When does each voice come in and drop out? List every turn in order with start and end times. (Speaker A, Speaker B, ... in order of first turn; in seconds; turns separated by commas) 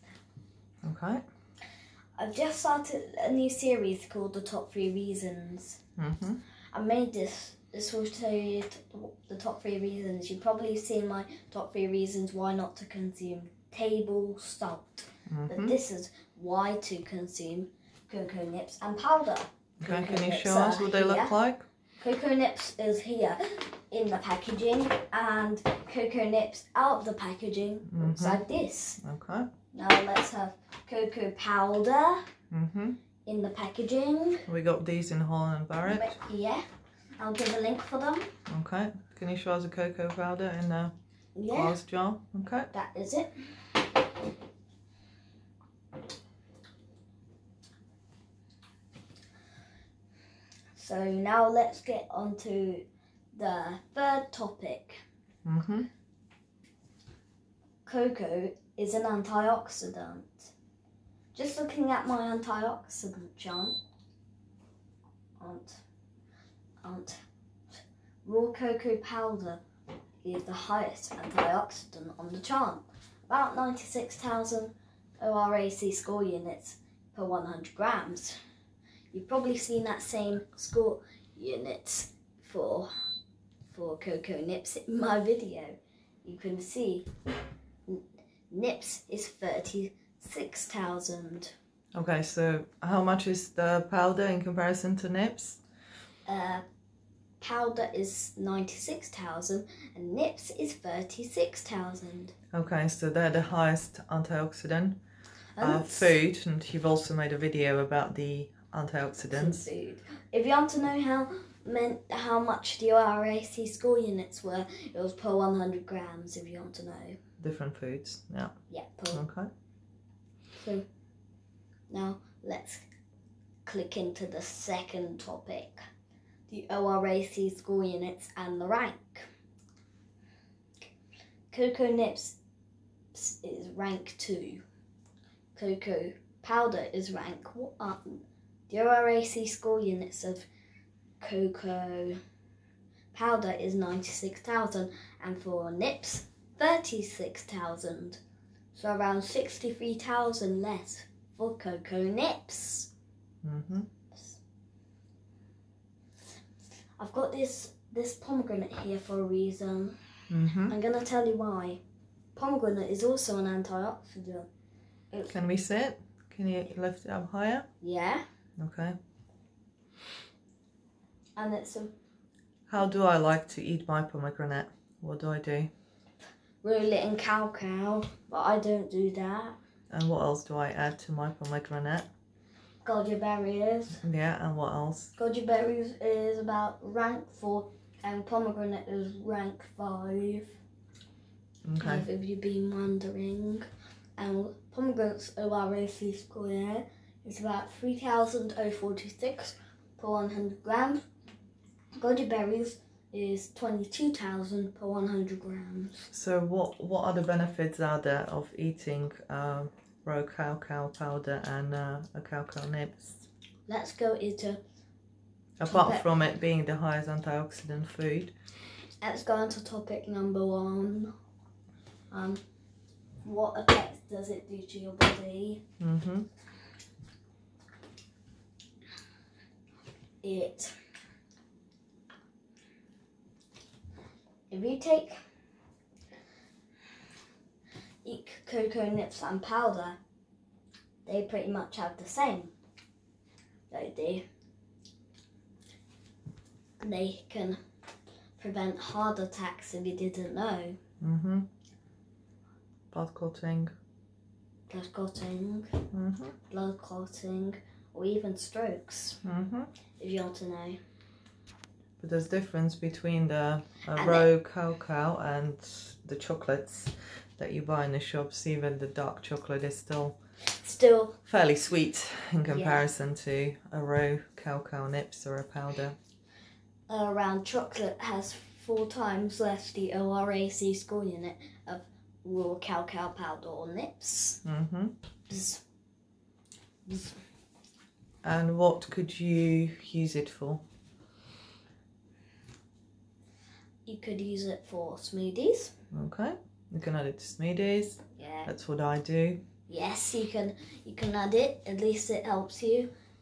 Speaker A: 0.8-1.2, Speaker B: 2.2-5.8, Speaker A: 6.0-6.4, Speaker B: 6.7-21.3, Speaker A: 15.3-15.7, Speaker A: 19.8-21.6, Speaker B: 22.0-29.0, Speaker A: 27.9-28.4, Speaker A: 29.0-29.5, Speaker B: 29.7-32.2, Speaker A: 32.5-33.0, Speaker B: 33.2-34.4, Speaker A: 34.5-36.1, Speaker B: 35.8-36.6, Speaker B: 37.2-38.3, Speaker A: 38.5-40.9, Speaker B: 41.3-41.8, Speaker A: 41.5-42.7, Speaker B: 42.7-43.8, Speaker B: 50.8-55.0, Speaker A: 55.4-55.9, Speaker B: 57.9-60.5, Speaker B: 61.3-63.8, Speaker B: 65.4-65.8, Speaker B: 66.8-67.2, Speaker B: 67.7-69.6, Speaker B: 70.2-78.4, Speaker B: 79.1-82.9, Speaker B: 83.7-87.1, Speaker B: 87.9-91.5, Speaker A: 91.9-95.6, Speaker B: 96.2-96.6, Speaker B: 97.4-102.3, Speaker A: 102.5-105.0, Speaker B: 105.5-106.1, Speaker A: 105.6-109.7, Speaker B: 109.3-117.2, Speaker A: 117.4-118.5, Speaker B: 118.7-119.2, Speaker A: 119.1-119.5, Speaker B: 120.6-120.8, Speaker B: 121.9-122.9, Speaker B: 123.7-125.8, Speaker B: 126.5-129.3, Speaker B: 131.5-132.3, Speaker B: 133.1-134.6, Speaker B: 135.5-140.5, Speaker B: 141.2-142.2, Speaker B: 143.1-148.2, Speaker B: 148.7-152.9, Speaker A: 153.4-153.9, Speaker B: 154.1-154.4, Speaker B: 157.0-159.9, Speaker A: 160.3-160.7, Speaker B: 160.7-161.8, Speaker B: 162.3-164.5, Speaker A: 165.3-167.7, Speaker B: 167.8-168.2, Speaker A: 168.6-168.9, Speaker B: 171.3-171.9, Speaker A: 172.7-175.7, Speaker B: 176.6-179.6, Speaker A: 179.9-182.1, Speaker B: 182.8-184.0, Speaker A: 184.0-185.1, Speaker B: 185.2-190.6, Speaker A: 191.7-192.1, Speaker B: 191.8-193.7, Speaker B: 194.2-201.1, Speaker B: 202.0-206.1, Speaker A: 206.1-213.2, Speaker B: 213.7-214.6, Speaker A: 215.6-218.3, Speaker B: 215.7-216.0, Speaker B: 219.0-221.1, Speaker B: 222.1-222.4, Speaker B: 223.2-225.6, Speaker A: 225.8-226.3, Speaker B: 230.2-230.7, Speaker B: 234.5-235.1, Speaker B: 238.0-240.0, Speaker B: 241.0-242.5, Speaker B: 243.7-244.2, Speaker B: 246.8-247.6, Speaker B: 248.4-250.8, Speaker A: 251.0-251.5, Speaker A: 252.9-253.7, Speaker B: 254.7-255.8, Speaker A: 255.9-256.3, Speaker B: 256.5-259.2, Speaker A: 259.2-259.7, Speaker B: 260.0-260.8, Speaker A: 262.0-270.1, Speaker B: 263.9-264.3, Speaker B: 270.5-271.2, Speaker A: 271.2-275.9, Speaker B: 272.5-272.8, Speaker B: 276.9-284.4, Speaker A: 284.4-284.9, Speaker B: 285.3-285.6, Speaker B: 286.9-287.2, Speaker A: 288.2-290.6, Speaker B: 293.9-295.7, Speaker A: 295.9-299.4, Speaker B: 298.2-298.5, Speaker B: 299.7-302.9